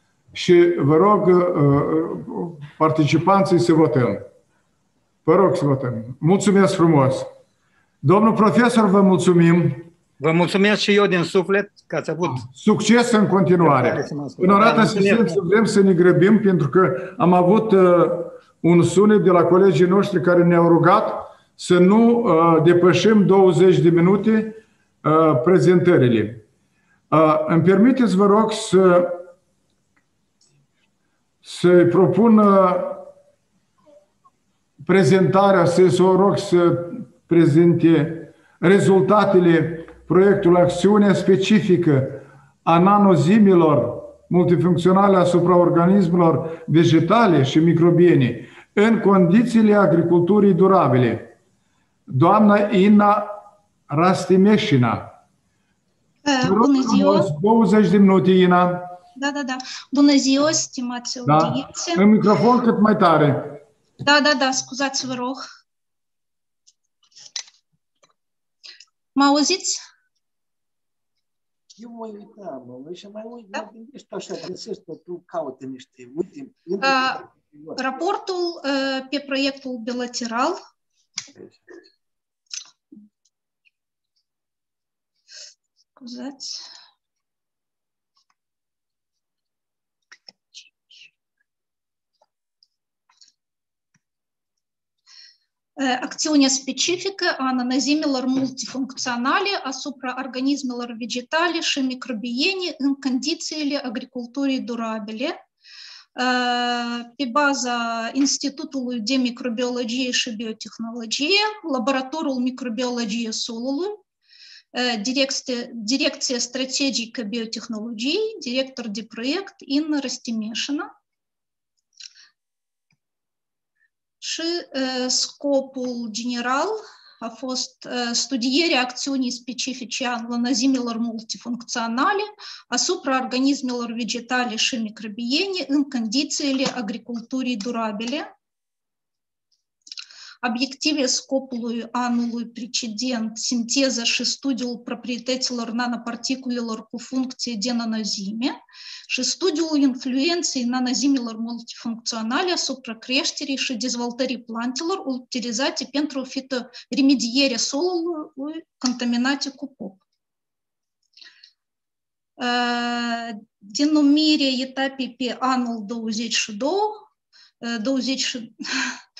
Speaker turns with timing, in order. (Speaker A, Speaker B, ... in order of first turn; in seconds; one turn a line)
Speaker A: 0.3-4.2
Speaker A: 5.2-7.2
Speaker A: 8.0-9.9
Speaker B: 10.2-12.4
Speaker A: 12.4-26.4
Speaker B: 13.6-15.4
Speaker A: 27.1-29.2
Speaker A: 31.4-33.0
Speaker A: 34.8-51.3
Speaker A: 52.1-53.3
Speaker A: 53.9-55.1
Speaker C: 56.2-57.3
Speaker A: 56.4-58.9
Speaker C: 59.2-62.0
Speaker A: 61.2-63.6
Speaker C: 64.0-65.4
Speaker C: 69.1-69.8
Speaker D: 71.7-77.8
Speaker C: 76.8-77.2
Speaker C: 77.8-80.6
Speaker D: 81.3-81.6
Speaker C: 86.0-86.6
Speaker C: 95.8-105.3
Speaker C: 106.2-114.0
Speaker C: 114.7-120.9
Speaker C: 124.2-138.2
Speaker C: 140.4-148.5
Speaker C: 149.1-160.0
Speaker C: 162.4-167.0
Speaker C: 167.6-168.9